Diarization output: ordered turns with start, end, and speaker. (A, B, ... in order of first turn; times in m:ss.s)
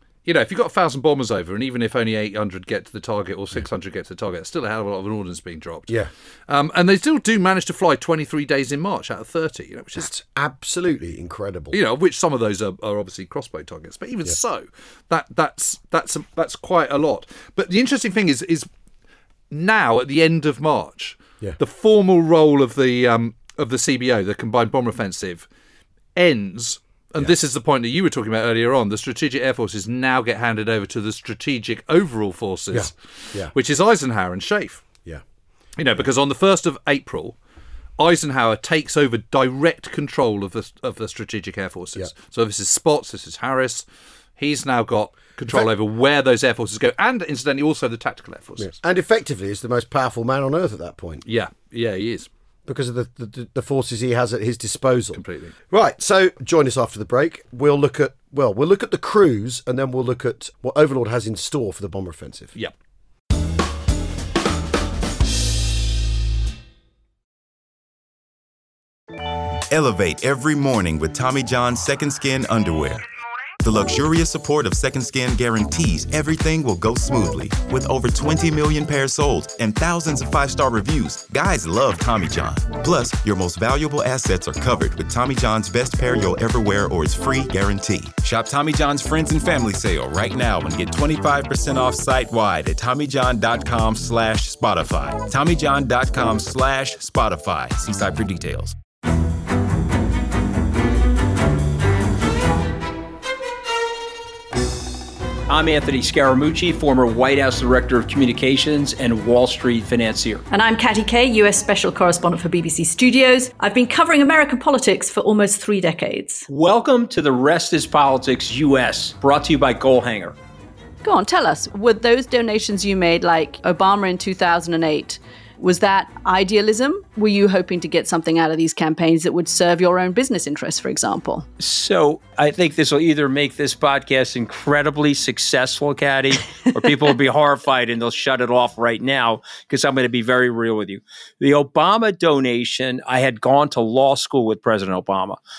0:00.2-0:06.0 A
0:06.5-0:10.2 A
0:09.9-0:11.8 B
0:11.7-0:18.7 A
0:19.5-0:25.4 A
0:26.2-0:32.9 A
0:32.7-0:33.5 B
0:33.4-0:34.8 A
0:35.8-0:37.4 A
0:38.0-0:43.8 A
0:44.4-0:48.8 A
0:48.6-0:51.2 B
0:51.2-0:52.3 A
0:52.6-1:02.5 B
0:55.1-0:55.5 A
1:09.5-1:13.0 C
1:13.6-1:38.8 C
1:45.5-1:50.4 D
1:50.5-1:56.5 E
1:56.5-2:00.4 D
2:01.0-2:11.5 E
2:11.6-2:25.4 D